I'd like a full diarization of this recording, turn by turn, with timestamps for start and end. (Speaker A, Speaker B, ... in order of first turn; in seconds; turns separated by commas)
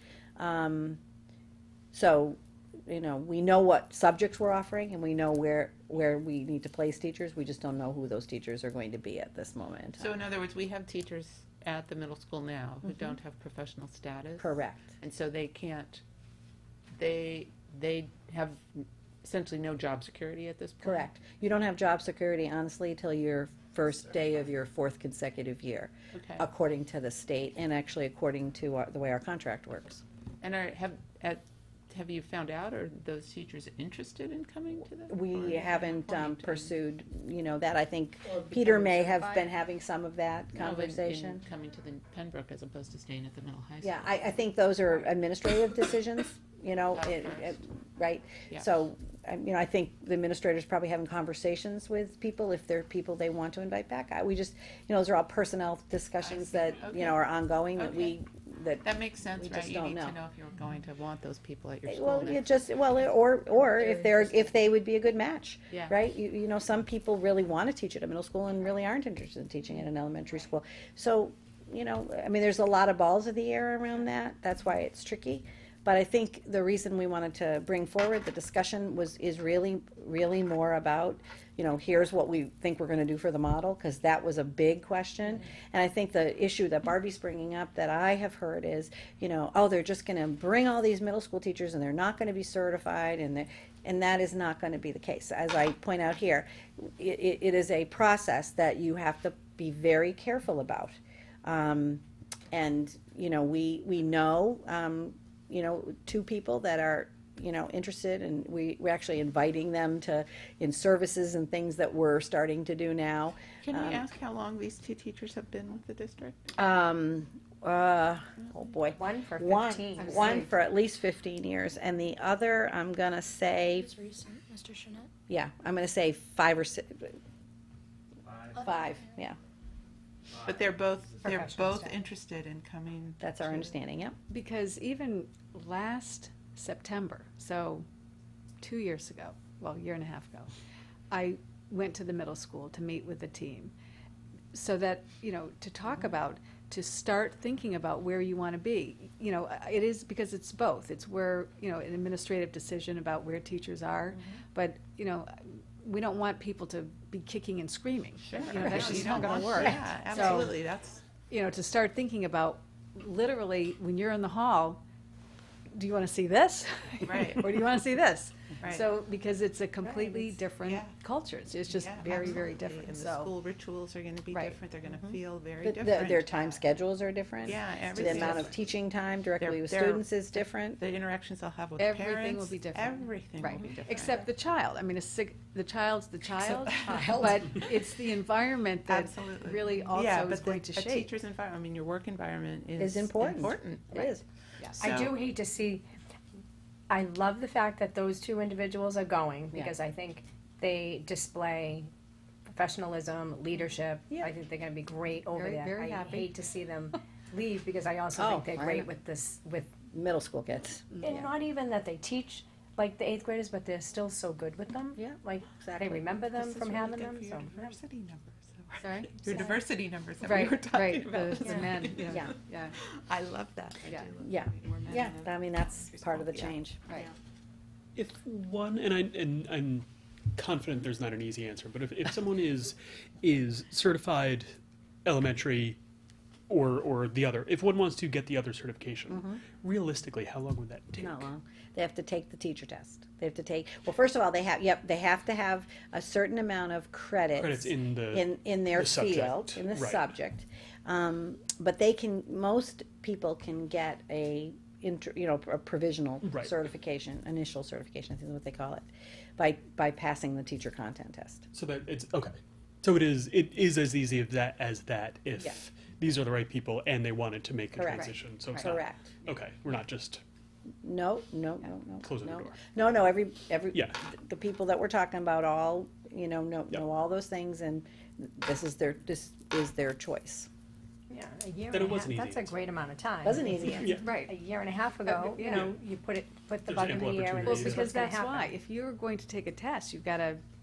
Speaker A: 0.4-1.0, Speaker A: 1.9-10.2, Speaker B: 10.0-16.0, Speaker A: 14.4-14.9, Speaker B: 17.0-21.1, Speaker A: 20.8-30.0, Speaker B: 26.1-26.5, Speaker B: 30.4-36.7, Speaker A: 35.1-41.4, Speaker B: 40.5-44.2, Speaker A: 43.8-60.2, Speaker B: 46.9-47.6, Speaker B: 56.2-57.2, Speaker B: 57.8-58.2, Speaker B: 58.8-62.6, Speaker A: 61.9-114.0, Speaker B: 65.7-66.0, Speaker B: 113.6-116.4, Speaker A: 116.5-124.0, Speaker C: 119.0-120.5, Speaker D: 120.0-120.5, Speaker C: 123.9-125.1, Speaker A: 125.3-127.2, Speaker A: 128.6-129.4, Speaker B: 130.4-133.7, Speaker C: 131.2-132.0, Speaker A: 133.2-134.2, Speaker D: 134.3-137.9, Speaker D: 138.6-140.5, Speaker D: 141.1-143.7, Speaker D: 144.5-160.6, Speaker B: 158.2-161.1, Speaker D: 161.3-164.8, Speaker D: 165.7-173.3, Speaker B: 167.1-167.6, Speaker C: 169.8-170.5, Speaker B: 170.6-170.9, Speaker B: 171.7-176.6, Speaker D: 174.3-174.6, Speaker A: 175.6-180.8, Speaker B: 177.4-178.6, Speaker C: 178.1-178.5, Speaker B: 179.4-184.3, Speaker D: 181.8-191.1, Speaker C: 186.4-187.7, Speaker B: 186.7-187.2, Speaker B: 188.9-194.1, Speaker A: 192.8-194.2, Speaker B: 194.7-195.3, Speaker C: 194.8-195.8, Speaker C: 196.9-201.9, Speaker C: 202.5-209.7, Speaker D: 205.3-206.3, Speaker A: 208.2-208.9, Speaker A: 209.9-211.3, Speaker C: 211.0-217.7, Speaker A: 215.0-216.1, Speaker B: 216.3-227.1, Speaker D: 218.8-219.3, Speaker C: 219.3-219.6, Speaker D: 220.2-222.8, Speaker C: 221.4-221.8, Speaker D: 223.9-224.1, Speaker A: 224.2-226.8, Speaker E: 228.0-234.5, Speaker E: 235.1-235.8, Speaker E: 236.5-241.3, Speaker A: 239.1-239.4, Speaker A: 241.0-261.5, Speaker E: 247.4-250.1, Speaker E: 256.2-256.5, Speaker E: 261.5-270.2, Speaker A: 267.8-269.1, Speaker A: 270.8-280.5, Speaker E: 272.0-272.6, Speaker E: 273.7-274.0, Speaker C: 281.1-288.5, Speaker E: 281.7-282.6, Speaker A: 283.2-284.0, Speaker E: 283.7-284.2, Speaker D: 284.0-284.4, Speaker D: 285.1-285.7, Speaker E: 285.4-285.7, Speaker E: 286.6-287.8, Speaker D: 287.4-290.4